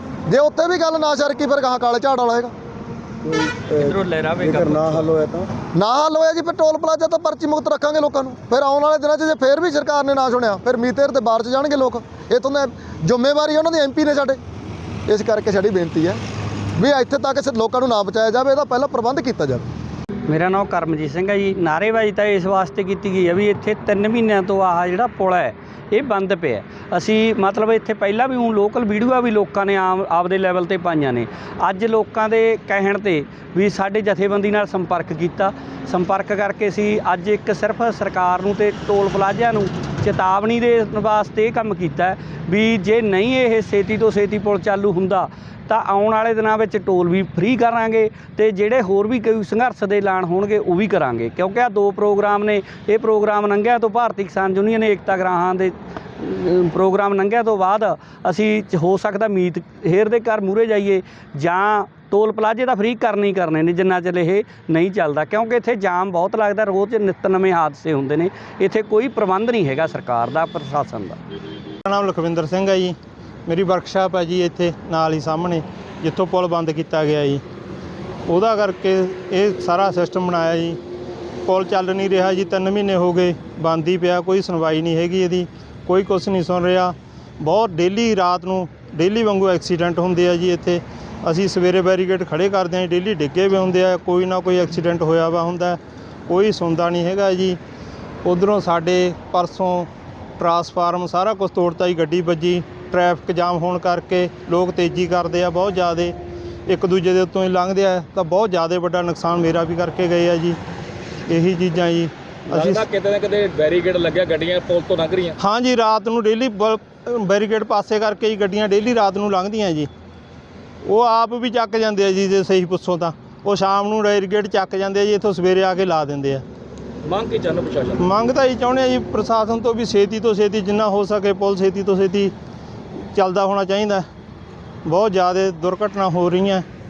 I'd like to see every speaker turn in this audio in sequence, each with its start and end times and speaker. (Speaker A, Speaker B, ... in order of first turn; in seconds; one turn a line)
Speaker A: 0.3-2.5
Speaker B: 3.2-5.5
Speaker C: 3.8-5.2
Speaker A: 5.8-14.4
Speaker A: 15.1-16.2
Speaker A: 16.8-19.7
Speaker C: 20.3-71.2
Speaker D: 71.9-77.4
Speaker D: 78.3-80.8
Speaker D: 81.5-97.6
Speaker D: 98.2-106.2
Speaker D: 106.7-110.6
Speaker D: 111.3-112.8
Speaker E: 112.5-115.4
Speaker D: 115.4-119.9
Speaker D: 120.8-126.4
Speaker E: 127.0-128.1
Speaker D: 128.0-132.3
Speaker D: 133.0-134.1
Speaker D: 134.8-136.7